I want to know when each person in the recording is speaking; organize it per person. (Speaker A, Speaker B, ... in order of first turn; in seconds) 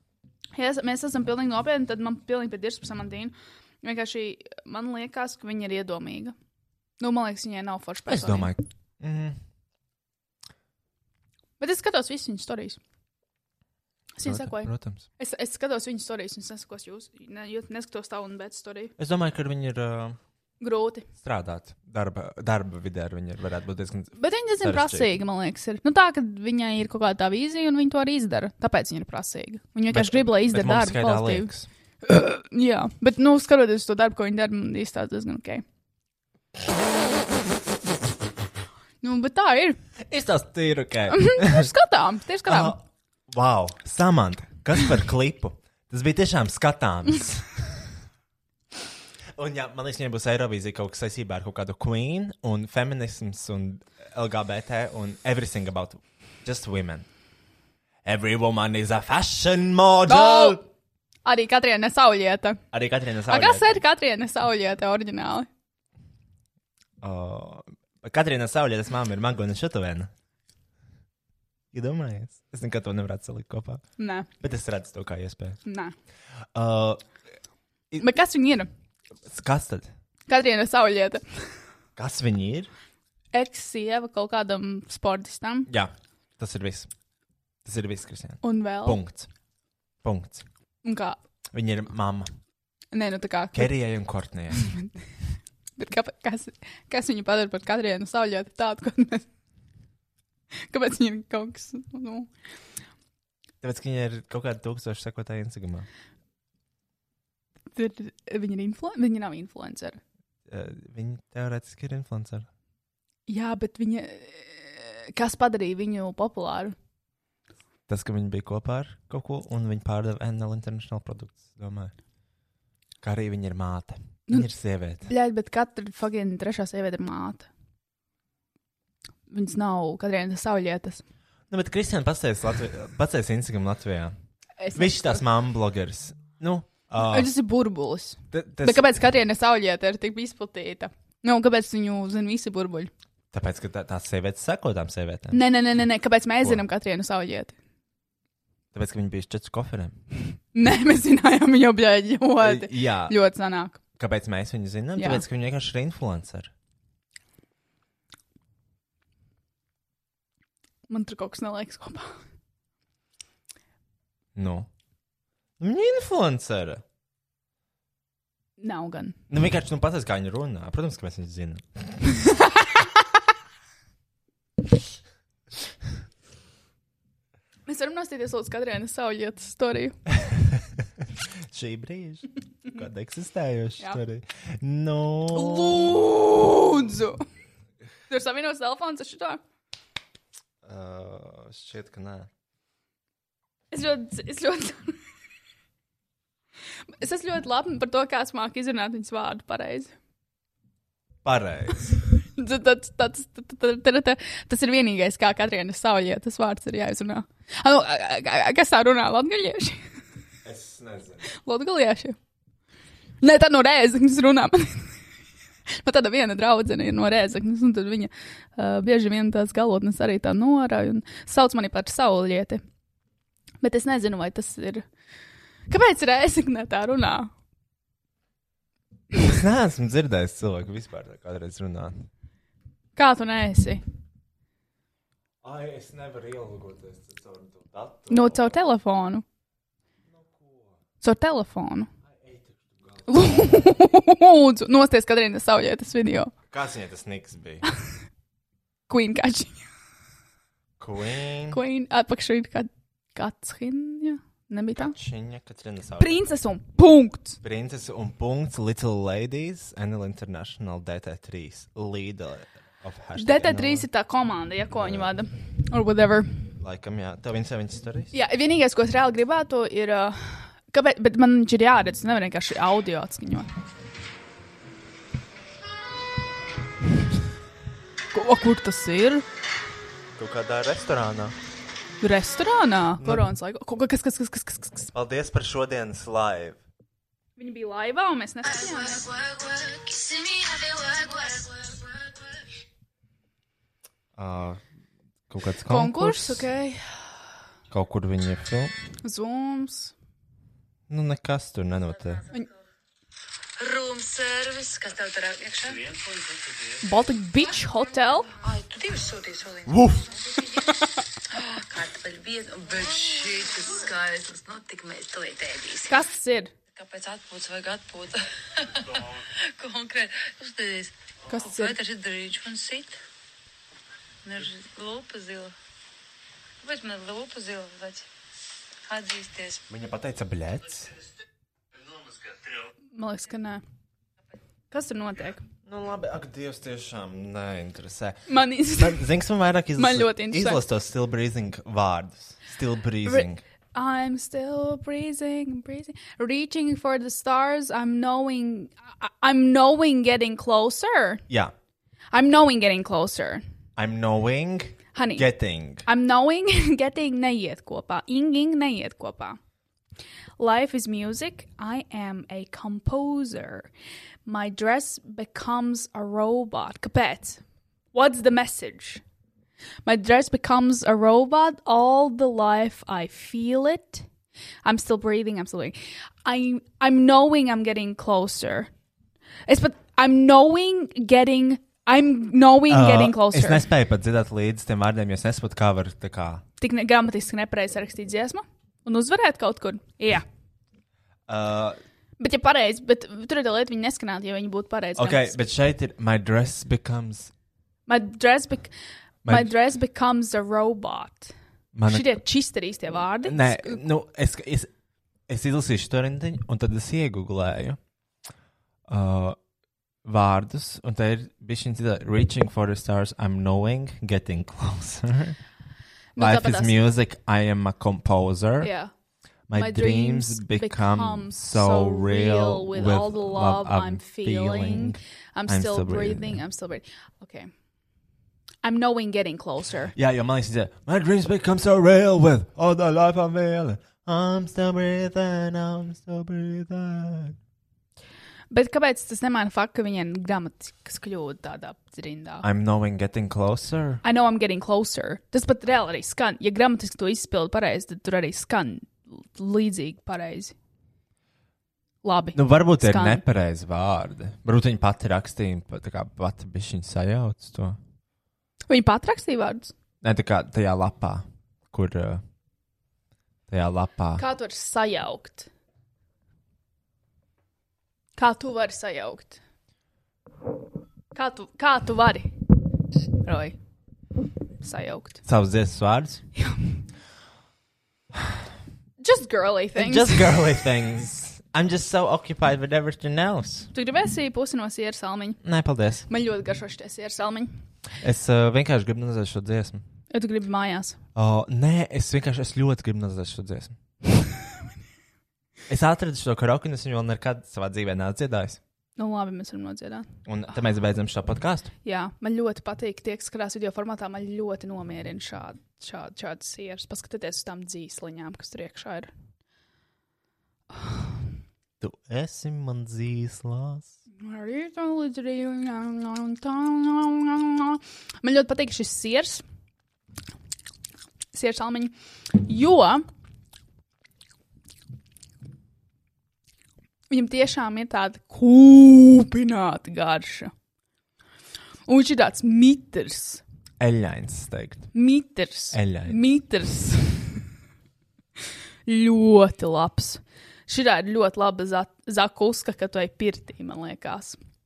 Speaker A: 0.5-6.3, 7.0-8.5, 11.6-12.8, 14.2-18.9, 20.6-21.1, 24.2-31.5, 32.0-35.6, 39.0-39.8, 41.1-42.8, 60.1-60.6, 61.2-62.6, 63.3-65.5, 74.0-74.3, 75.7-75.9, 78.0-78.7, 80.3-81.2, 83.3-85.7, 88.4-89.0, 90.8-91.2, 92.9-93.7, 94.6-94.9, 95.8-99.2, 100.7-102.3, 107.7-110.0, 113.3-116.8, 125.0-127.5, 129.3-131.0, 134.6-135.2, 137.0-142.9, 145.3-147.5, 150.5-153.8, 154.9-155.2, 160.9-162.2, 168.6-169.2, 177.7-179.9, 185.3-187.2, 188.1-189.4, 193.7-195.0, 197.0-199.9, 202.4-209.8, 211.3-212.2, 213.2-215.0, 215.7-222.6, 223.6-224.8, 225.7-227.3, 232.9-233.8, 238.1-239.2, 241.0-241.9, 243.1-246.3, 248.9-249.6, 251.5-254.9, 256.0-257.4, 263.2-266.4, 268.1-273.5, 278.1-279.2, 282.0-284.9, 287.4-289.1, 295.7-296.8, 299.0-299.9, 306.8-308.3, 315.9-316.5, 321.3-321.8, 332.9-333.6, 334.7-335.4, 338.3-339.1, 339.8-340.6, 343.0-351.2, 352.1-353.4, 354.9-355.3, 355.8-359.4, 360.4-363.7, 364.2-367.4, 367.9-369.0, 369.8-374.1, 374.6-378.7, 379.5-383.7, 386.6-390.2, 392.2-395.4, 397.9-398.7, 399.3-401.3, 401.9-403.8, 416.1-416.8, 418.6-418.9, 419.5-427.5, 428.6-429.9, 438.5-442.4, 444.0-450.5, 452.0-453.2, 458.7-459.7, 464.1-465.5, 468.1-469.4, 471.1-472.4, 473.2-473.6, 474.6-475.2, 479.0-480.4, 483.7-485.4, 486.1-487.5, 490.1-491.0, 499.0-500.1, 501.8-509.1, 510.7-511.1, 514.2-519.4, 521.3-523.0, 527.1-530.5, 531.9-533.4, 534.9-537.4, 538.9-544.4
Speaker B: 8.1-9.4, 14.2-15.1, 19.0-20.2, 21.2-25.1, 29.9-31.7, 40.1-41.7, 42.5-47.8, 49.3-57.1, 58.0-60.6, 62.7-63.7, 67.0-70.1, 71.7-73.8, 74.4-75.6, 76.5-77.0, 79.2-79.9, 82.0-82.7, 85.7-86.9, 87.6-89.3, 90.0-90.4, 91.5-92.3, 93.5-94.7, 103.6-105.9, 110.5-112.5, 117.9-121.9, 123.0-125.1, 131.5-134.1, 134.7-137.3, 138.3-138.9, 143.3-145.4, 148.7-149.9, 152.4-153.2, 154.0-156.5, 164.3-164.7, 165.6-166.8, 169.3-172.0, 180.1-185.8, 190.6-192.3, 201.2-202.0, 210.4-211.2, 229.2-232.1, 235.4-238.5, 240.1-240.7, 242.1-243.2, 246.5-247.6, 250.8-251.6, 254.8-256.2, 257.4-263.9, 264.7-265.1, 266.6-268.1, 280.1-281.4, 283.0-283.2, 284.9-286.6, 294.1-294.6, 295.3-296.5, 297.7-298.7, 300.9-302.2, 309.7-310.0, 329.7-331.0, 335.6-343.4, 353.8-355.8, 382.7-386.4, 391.3-391.8, 394.9-397.3, 399.2-399.5, 401.7-402.2, 403.2-404.7, 405.3-407.8, 408.9-409.4, 410.0-415.4, 416.2-418.7, 419.5-426.4, 429.9-437.4, 442.4-444.0, 452.3-457.8, 460.0-462.2, 463.5-464.2, 475.2-476.2, 479.8-483.7, 485.4-486.1, 488.0-489.8, 491.1-493.8, 495.7-498.6, 500.2-501.7, 511.8-513.9, 533.8-534.9, 535.7-536.2
Speaker C: 289.2-291.5, 303.6-306.0, 308.4-316.0, 316.7-323.0, 324.2-325.5, 326.6-328.1, 328.9-329.6